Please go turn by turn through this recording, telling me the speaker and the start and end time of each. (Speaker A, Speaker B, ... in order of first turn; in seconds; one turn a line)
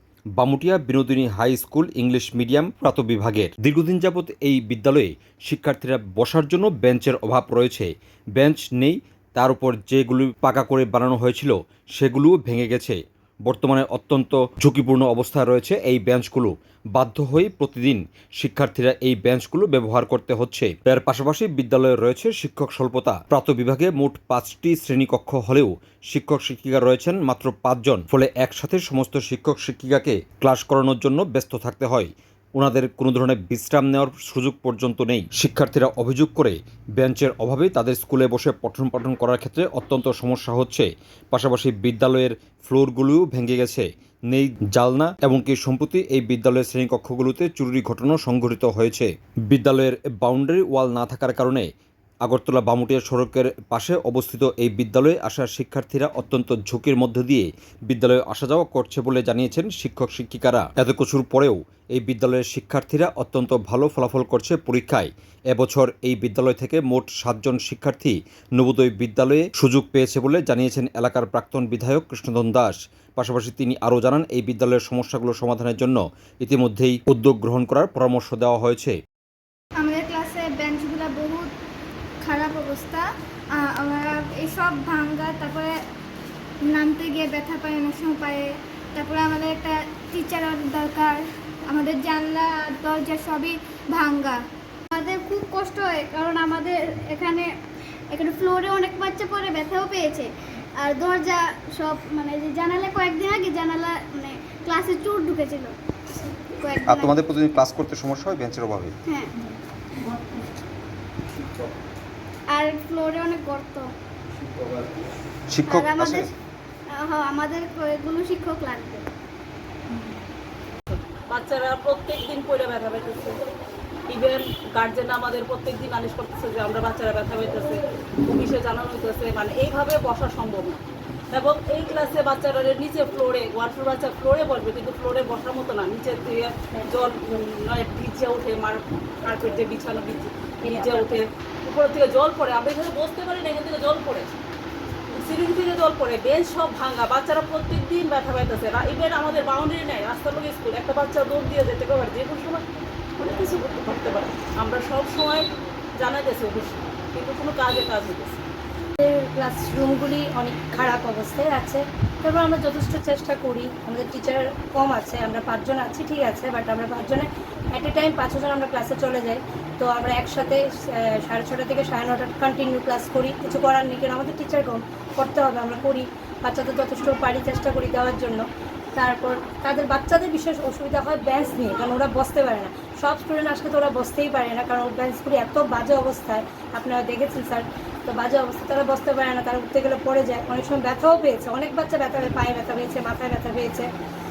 Speaker A: 0.4-51.7
Speaker A: 52.2-79.0
Speaker B: 79.8-81.5
Speaker B: 82.2-83.0
Speaker B: 83.6-85.8
Speaker B: 86.7-94.4
Speaker C: 94.9-97.5
Speaker C: 98.1-100.3
Speaker C: 100.8-105.7
Speaker C: 106.6-107.1
Speaker A: 106.9-108.9
Speaker C: 109.0-109.3
Speaker C: 112.5-113.9
Speaker A: 115.5-116.3
Speaker C: 115.6-116.3
Speaker C: 116.9-119.0
Speaker D: 120.9-123.4
Speaker D: 124.1-130.8
Speaker D: 131.3-144.3
Speaker E: 136.7-137.3
Speaker E: 140.6-141.2
Speaker D: 145.1-152.6
Speaker D: 153.2-155.4
Speaker D: 156.0-158.4
Speaker E: 159.0-178.4
Speaker E: 178.9-193.9